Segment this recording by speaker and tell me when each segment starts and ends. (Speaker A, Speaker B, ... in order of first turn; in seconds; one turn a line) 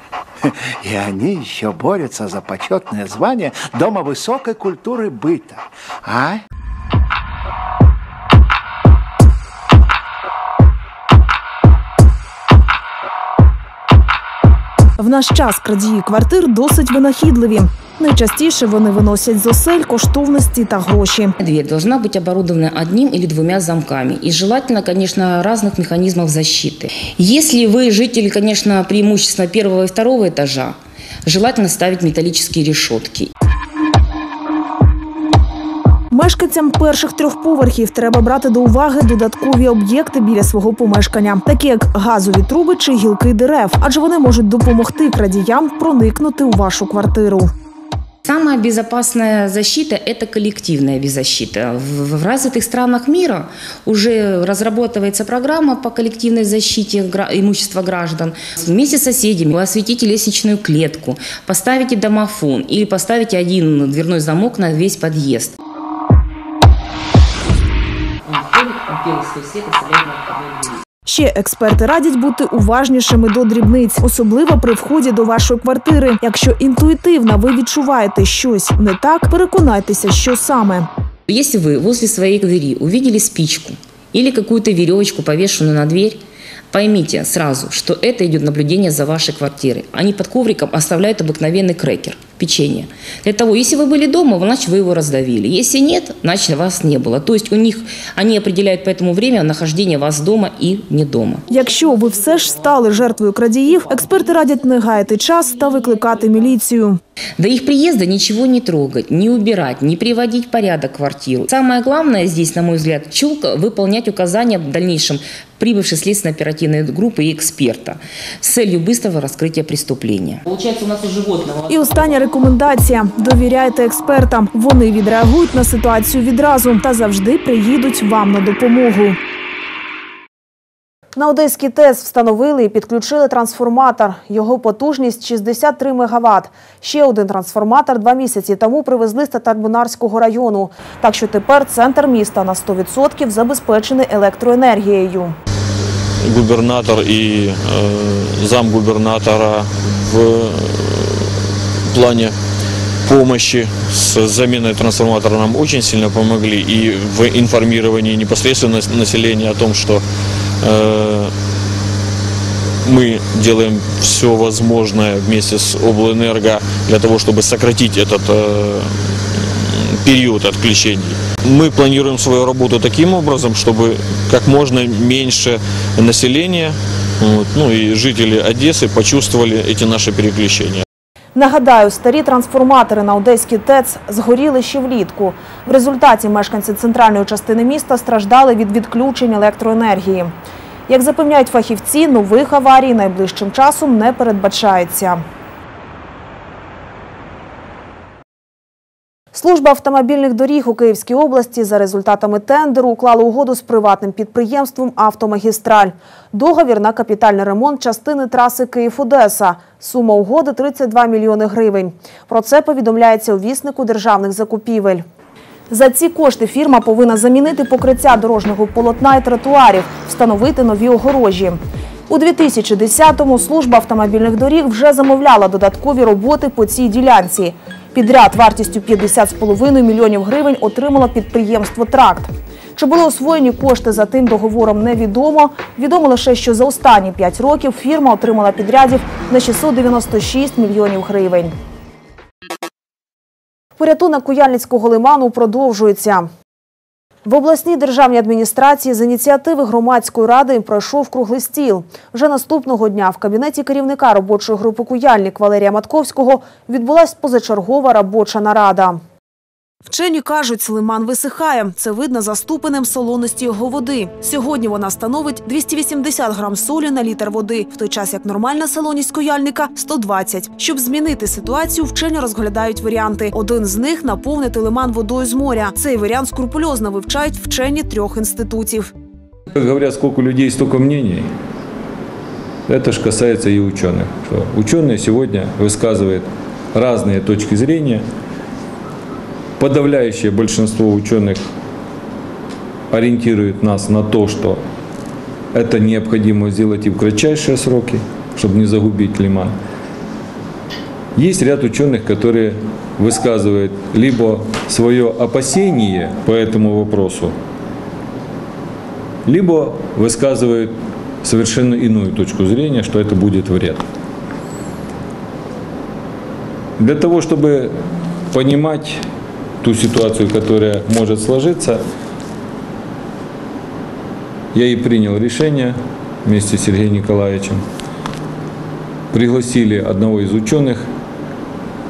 Speaker A: 0.4-6.4
Speaker B: 15.0-21.3
Speaker C: 21.4-33.3
Speaker B: 36.1-47.5
Speaker C: 48.2-65.5
Speaker C: 68.3-70.8
Speaker B: 71.0-80.9
Speaker C: 81.3-101.5
Speaker B: 101.5-107.0
Speaker C: 107.4-122.1
Speaker B: 121.7-129.2
Speaker B: 131.1-145.3
Speaker D: 146.2-151.3
Speaker D: 151.9-152.3
Speaker D: 153.0-160.0
Speaker D: 160.6-161.3
Speaker D: 162.8-168.9
Speaker D: 169.6-180.8
Speaker B: 181.3-190.3
Speaker B: 190.9-195.2
Speaker B: 199.3-215.0
Speaker B: 215.7-241.5
Speaker B: 243.8-246.3
Speaker B: 247.2-259.0
Speaker B: 259.9-278.9
Speaker E: 279.5-281.3
Speaker E: 282.7-288.0
Speaker E: 289.6-291.4
Speaker E: 292.9-294.6
Speaker E: 295.5-299.5
Speaker E: 301.1-307.4
Speaker E: 309.2-313.8
Speaker E: 316.8-317.7
Speaker E: 318.3-319.0
Speaker E: 319.6-321.8
Speaker E: 324.5-327.6
Speaker E: 329.1-330.9